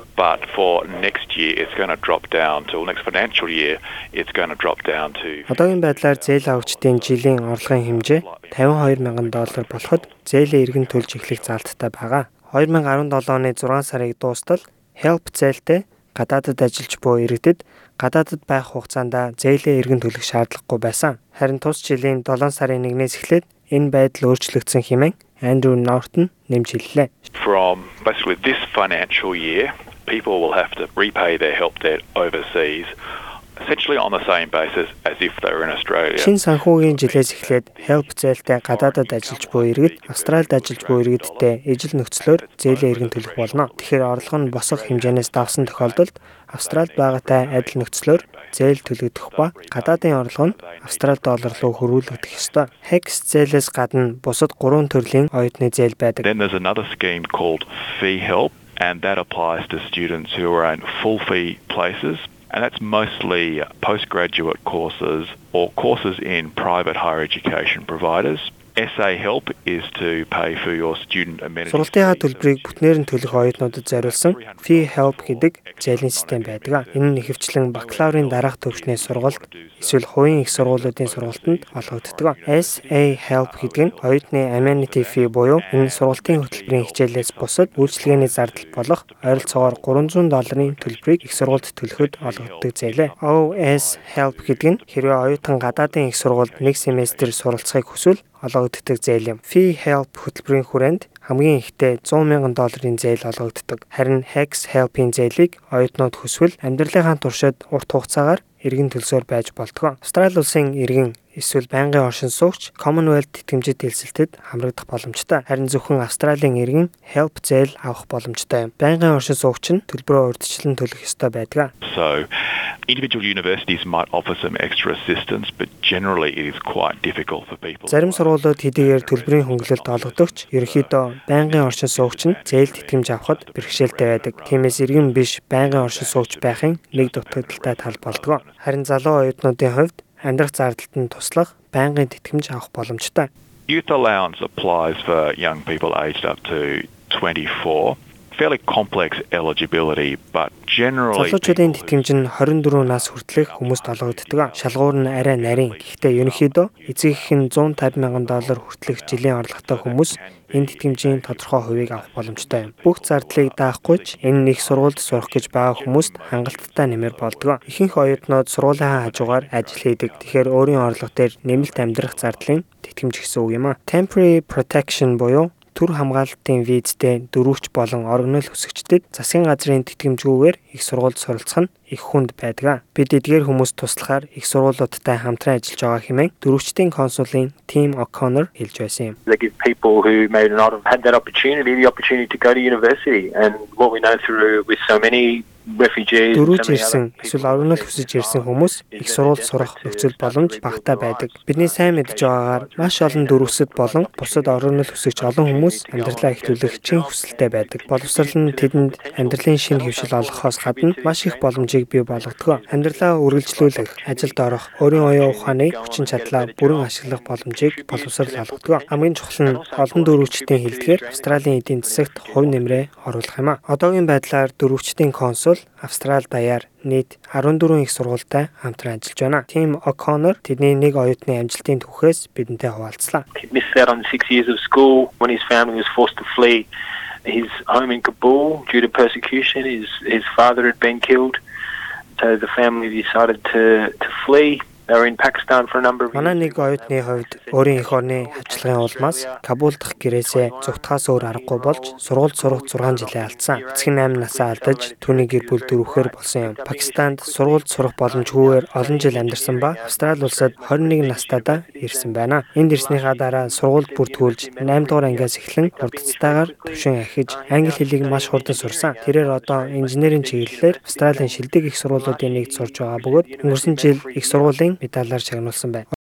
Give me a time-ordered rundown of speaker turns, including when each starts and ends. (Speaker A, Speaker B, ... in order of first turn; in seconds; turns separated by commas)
Speaker A: 0.1-11.6, Speaker B: 5.5-27.1, Speaker A: 27.3-32.9, Speaker A: 33.6-41.6, Speaker B: 36.1-56.3, Speaker A: 42.2-48.7, Speaker A: 49.3-52.8, Speaker A: 56.2-97.4, Speaker B: 71.7-121.7, Speaker A: 121.8-122.3, Speaker A: 122.9-138.6, Speaker B: 127.9-143.3, Speaker A: 143.7-172.5, Speaker B: 151.1-189.2, Speaker C: 189.2-222.8, Speaker B: 196.3-233.2, Speaker C: 233.3-236.7, Speaker C: 237.2-241.4, Speaker C: 242.2-274.6, Speaker B: 246.1-275.9